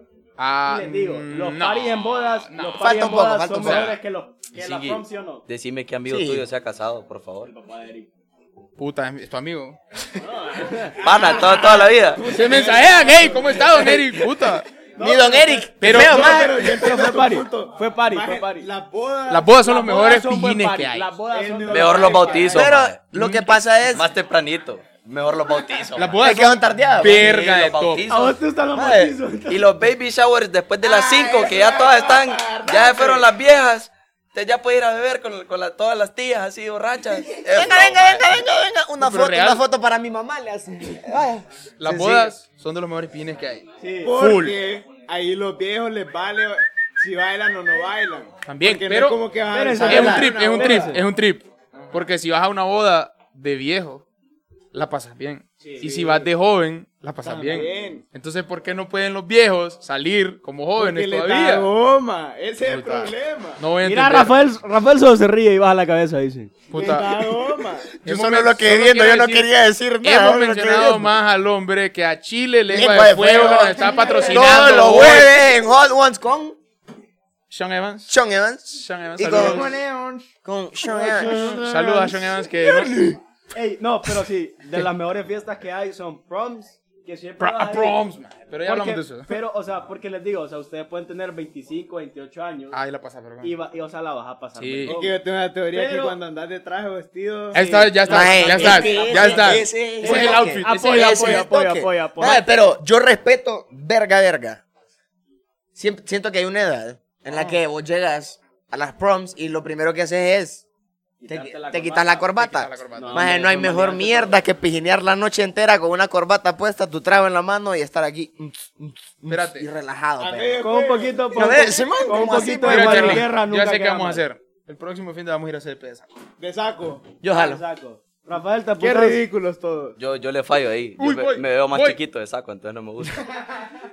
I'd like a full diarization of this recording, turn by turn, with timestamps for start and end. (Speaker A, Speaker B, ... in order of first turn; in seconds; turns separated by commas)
Speaker A: 0.4-2.9, Speaker B: 0.7-5.5, Speaker C: 2.8-4.0, Speaker A: 3.6-4.0, Speaker D: 4.5-7.5, Speaker C: 6.1-6.5, Speaker B: 7.4-8.1, Speaker A: 8.8-9.8, Speaker B: 10.2-11.2, Speaker E: 10.9-14.1, Speaker D: 11.0-12.2, Speaker A: 12.2-14.7, Speaker B: 15.0-18.7, Speaker C: 15.0-17.0, Speaker A: 15.8-16.5, Speaker E: 15.8-19.6, Speaker A: 19.3-21.2, Speaker B: 19.6-22.7, Speaker E: 21.3-22.7, Speaker D: 21.7-23.0, Speaker C: 22.5-24.1, Speaker A: 23.1-23.5, Speaker D: 23.9-26.2, Speaker A: 25.9-28.1, Speaker C: 26.2-27.3, Speaker D: 27.0-28.4, Speaker B: 28.1-29.7, Speaker C: 28.8-29.2, Speaker D: 29.5-38.2, Speaker E: 30.8-33.3, Speaker C: 37.5-41.5, Speaker A: 39.0-39.6, Speaker A: 41.8-44.6, Speaker E: 41.9-42.3, Speaker B: 43.8-44.1, Speaker E: 44.0-51.0, Speaker A: 48.5-54.0, Speaker B: 49.5-51.0, Speaker A: 54.7-61.7, Speaker B: 55.6-56.3, Speaker E: 57.2-58.0, Speaker B: 57.5-57.9, Speaker E: 60.8-63.6, Speaker A: 62.6-64.4, Speaker B: 63.8-66.6, Speaker A: 66.7-67.3, Speaker E: 66.7-68.0, Speaker A: 68.0-69.5, Speaker C: 68.0-71.1, Speaker A: 70.0-75.4, Speaker C: 72.7-76.6, Speaker E: 73.8-75.2, Speaker A: 77.5-78.1, Speaker C: 78.1-79.7, Speaker A: 78.7-79.7, Speaker E: 79.2-80.3, Speaker C: 80.4-81.6, Speaker E: 80.8-83.1, Speaker B: 81.0-81.5, Speaker A: 81.2-83.1, Speaker B: 83.5-88.0, Speaker A: 87.4-89.3, Speaker B: 88.6-92.8, Speaker A: 92.7-93.5, Speaker B: 93.4-95.2, Speaker A: 94.6-94.9, Speaker E: 94.9-97.6, Speaker B: 95.7-96.2, Speaker A: 97.5-101.4, Speaker B: 97.5-102.5, Speaker C: 98.1-104.6, Speaker C: 105.8-110.6, Speaker A: 107.3-107.6, Speaker B: 111.2-112.3, Speaker C: 111.3-120.6, Speaker A: 112.3-113.4, Speaker B: 112.9-114.4, Speaker A: 119.3-119.7, Speaker E: 120.2-123.1, Speaker B: 120.6-124.2, Speaker C: 121.3-123.2, Speaker A: 122.7-126.1, Speaker E: 126.4-127.0, Speaker C: 127.2-127.6, Speaker B: 127.3-129.2, Speaker E: 128.8-130.0, Speaker D: 130.0-133.2, Speaker A: 131.0-132.0